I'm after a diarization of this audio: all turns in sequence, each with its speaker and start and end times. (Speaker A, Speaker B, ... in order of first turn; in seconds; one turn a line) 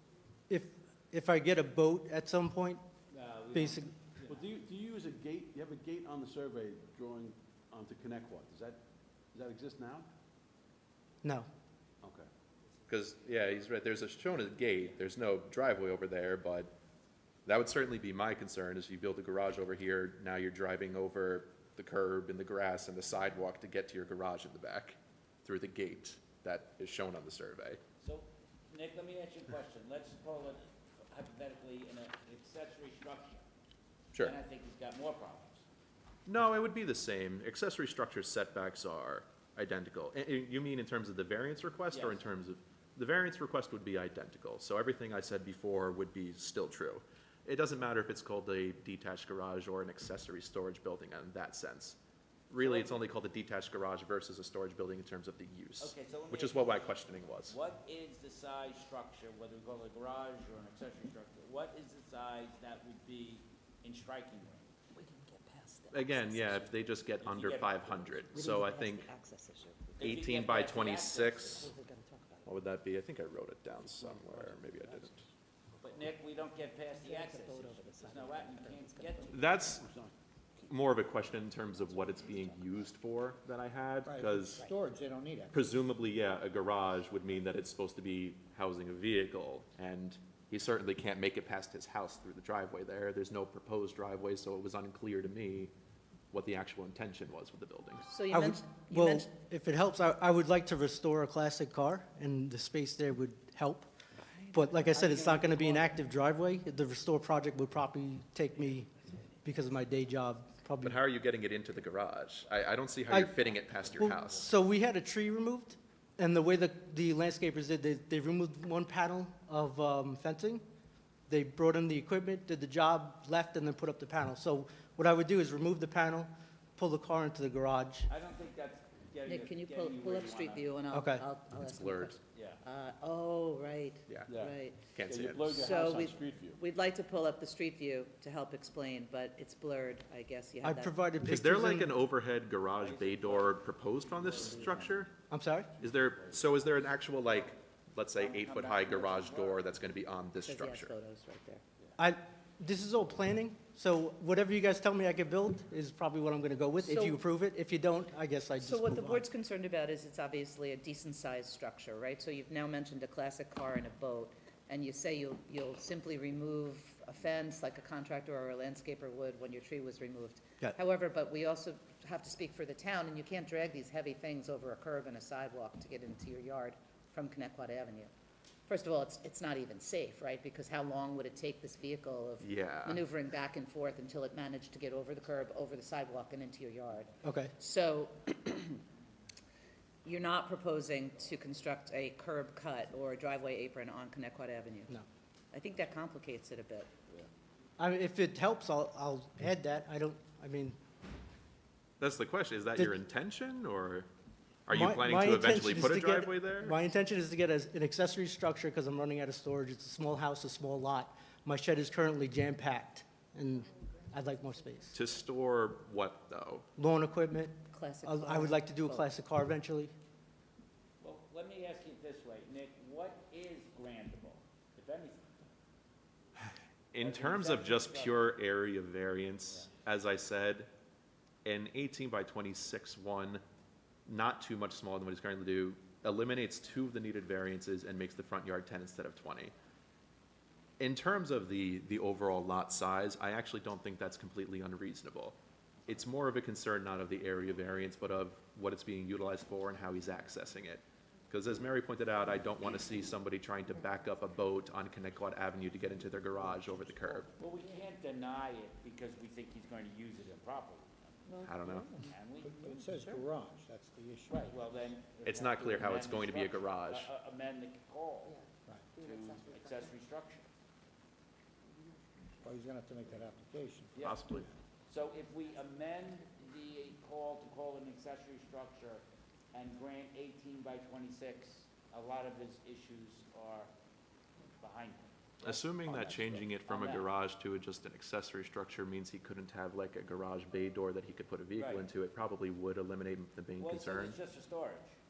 Speaker A: 0.5-2.8
Speaker B: 3.1-4.5
Speaker A: 3.5-3.9
Speaker C: 4.3-8.8
Speaker C: 9.3-10.1
Speaker C: 12.0-12.3
Speaker D: 12.9-16.7
Speaker D: 17.4-27.8
Speaker B: 28.0-33.4
Speaker B: 34.2-35.6
Speaker D: 36.2-52.0
Speaker B: 41.9-42.2
Speaker D: 52.5-57.6
Speaker B: 52.6-53.0
Speaker B: 55.8-64.7
Speaker E: 64.9-66.6
Speaker D: 65.9-69.1
Speaker B: 67.2-68.2
Speaker E: 68.3-70.0
Speaker B: 70.0-71.7
Speaker D: 70.0-71.7
Speaker E: 71.6-72.5
Speaker D: 72.5-75.2
Speaker C: 74.0-75.0
Speaker B: 75.8-79.6
Speaker E: 77.0-79.2
Speaker D: 79.3-79.9
Speaker C: 79.5-80.7
Speaker D: 80.7-84.7
Speaker E: 81.9-82.8
Speaker F: 84.1-85.6
Speaker D: 85.5-95.7
Speaker D: 96.3-98.1
Speaker E: 98.0-99.3
Speaker A: 98.3-103.9
Speaker E: 104.2-105.9
Speaker A: 104.5-108.9
Speaker A: 109.5-111.0
Speaker D: 110.8-114.5
Speaker A: 113.1-120.6
Speaker A: 121.3-128.1
Speaker B: 128.1-130.7
Speaker E: 129.3-134.8
Speaker A: 130.9-131.2
Speaker D: 131.6-132.2
Speaker B: 132.3-132.6
Speaker C: 134.2-136.6
Speaker D: 134.9-135.6
Speaker E: 135.5-140.9
Speaker A: 140.6-142.0
Speaker D: 141.2-145.1
Speaker B: 142.8-143.6
Speaker B: 144.2-144.9
Speaker C: 144.2-144.9
Speaker A: 145.3-145.7
Speaker C: 145.7-146.7
Speaker D: 145.8-150.9
Speaker B: 147.2-147.5
Speaker B: 148.2-149.7
Speaker E: 150.4-151.6
Speaker A: 152.0-159.2
Speaker E: 156.8-157.2
Speaker E: 158.6-178.1
Speaker E: 178.7-188.8
Speaker D: 182.4-183.0
Speaker A: 187.2-187.5
Speaker E: 190.1-194.9
Speaker E: 195.5-196.9
Speaker A: 197.8-200.8
Speaker D: 202.0-204.1
Speaker D: 204.7-206.8
Speaker A: 204.7-215.0
Speaker D: 214.9-216.7
Speaker A: 216.8-219.9
Speaker E: 217.7-219.0
Speaker B: 221.0-225.5
Speaker D: 226.9-230.7
Speaker B: 227.0-228.3
Speaker D: 231.4-233.4
Speaker D: 234.1-239.5
Speaker D: 240.8-257.3
Speaker B: 257.4-261.3
Speaker E: 261.3-262.1
Speaker D: 261.4-262.0
Speaker B: 261.9-262.7
Speaker F: 262.4-264.5
Speaker B: 264.3-268.4
Speaker D: 265.2-267.1
Speaker E: 269.0-269.6
Speaker B: 269.0-270.5
Speaker F: 272.4-274.0
Speaker B: 273.9-283.7
Speaker D: 274.0-274.5
Speaker B: 284.6-287.1
Speaker D: 285.4-294.2
Speaker B: 291.5-291.9
Speaker B: 293.6-294.9